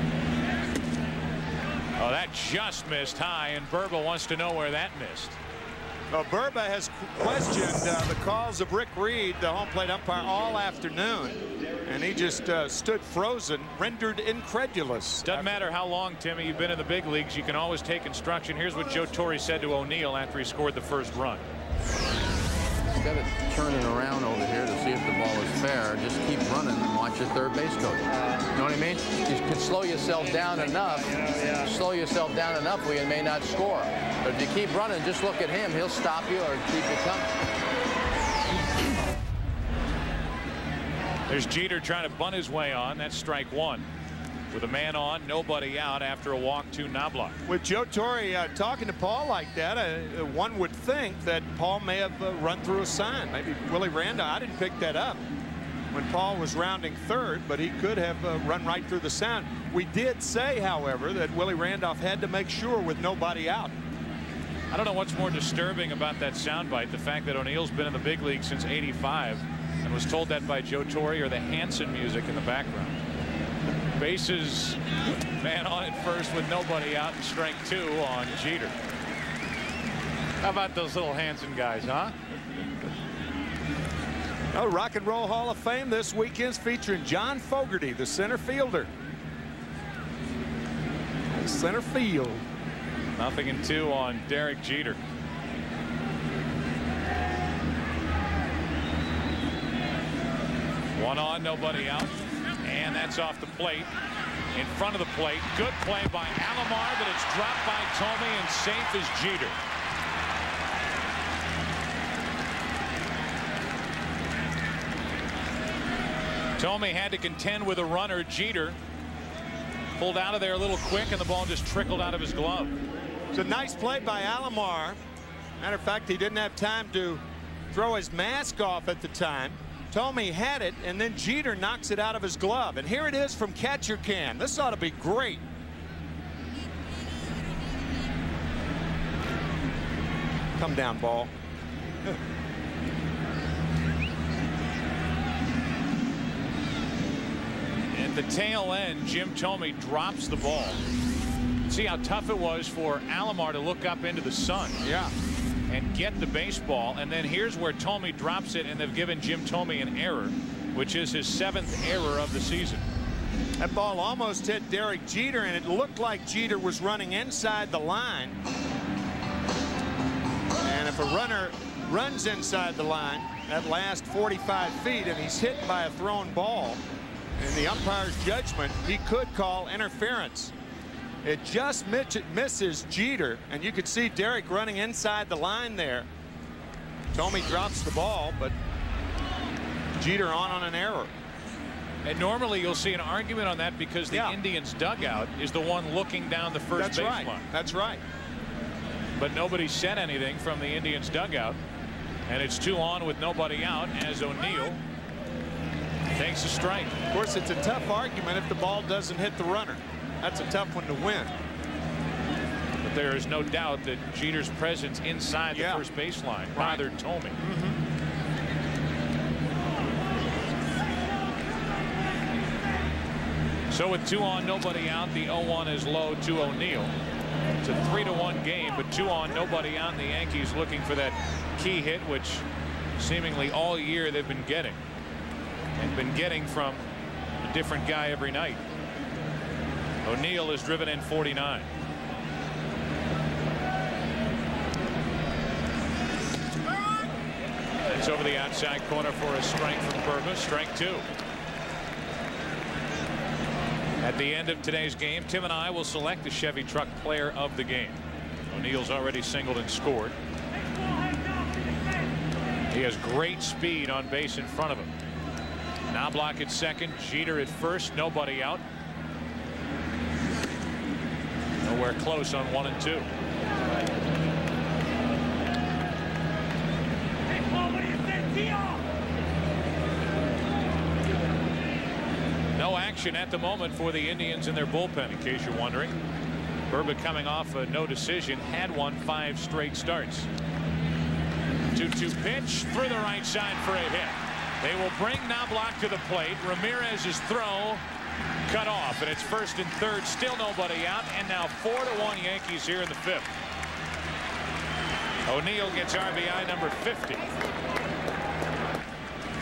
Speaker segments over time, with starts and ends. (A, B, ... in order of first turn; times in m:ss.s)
0:02.0-0:05.4 A
0:06.1-0:15.5 B
0:15.2-0:21.4 A
0:23.0-0:37.3 C
0:41.3-0:43.9 A
0:44.5-0:47.4 A
0:47.5-0:55.2 B
0:55.9-1:03.7 B
1:04.7-1:13.0 A
1:14.0-1:14.8 A
1:15.4-1:18.8 A
1:20.4-1:22.2 A
1:24.5-1:28.9 B
1:31.3-1:32.4 B
1:33.2-1:35.0 A
1:41.0-1:43.9 A
1:44.5-1:49.6 A
1:56.6-1:58.8 A
2:00.0-2:02.8 A
2:03.3-2:05.0 B
2:05.6-2:15.4 B
2:20.6-2:21.3 B
2:27.9-2:30.8 A
2:31.7-2:34.8 A
2:34.8-2:35.1 B
2:35.7-2:42.9 A
2:43.6-2:48.4 B
2:50.6-2:56.8 B
2:57.4-3:00.5 B
3:01.2-3:06.1 B
3:07.1-3:08.6 B
3:10.0-3:11.1 B
3:12.0-3:17.4 A
3:14.1-3:14.4 B
3:16.7-3:18.0 B
3:19.2-3:21.6 A
3:22.3-3:24.8 A
3:26.1-3:27.0 A
3:27.1-3:31.3 B
3:32.8-3:37.4 A
3:35.5-3:35.9 B
3:36.6-3:36.8 B
3:37.4-3:37.8 B
3:43.7-3:46.9 A
3:47.6-3:52.4 A
3:53.0-3:54.8 A
3:55.8-3:56.9 A
3:57.4-3:58.6 A
4:00.0-4:01.7 A
4:07.9-4:11.0 A
4:14.0-4:20.2 A
4:22.7-4:24.9 A
4:25.9-4:28.6 A
4:31.6-4:33.1 A
4:42.6-4:46.0 A
4:46.7-4:50.3 A
4:51.7-4:57.8 A
4:58.5-5:03.3 A
5:05.3-5:07.3 A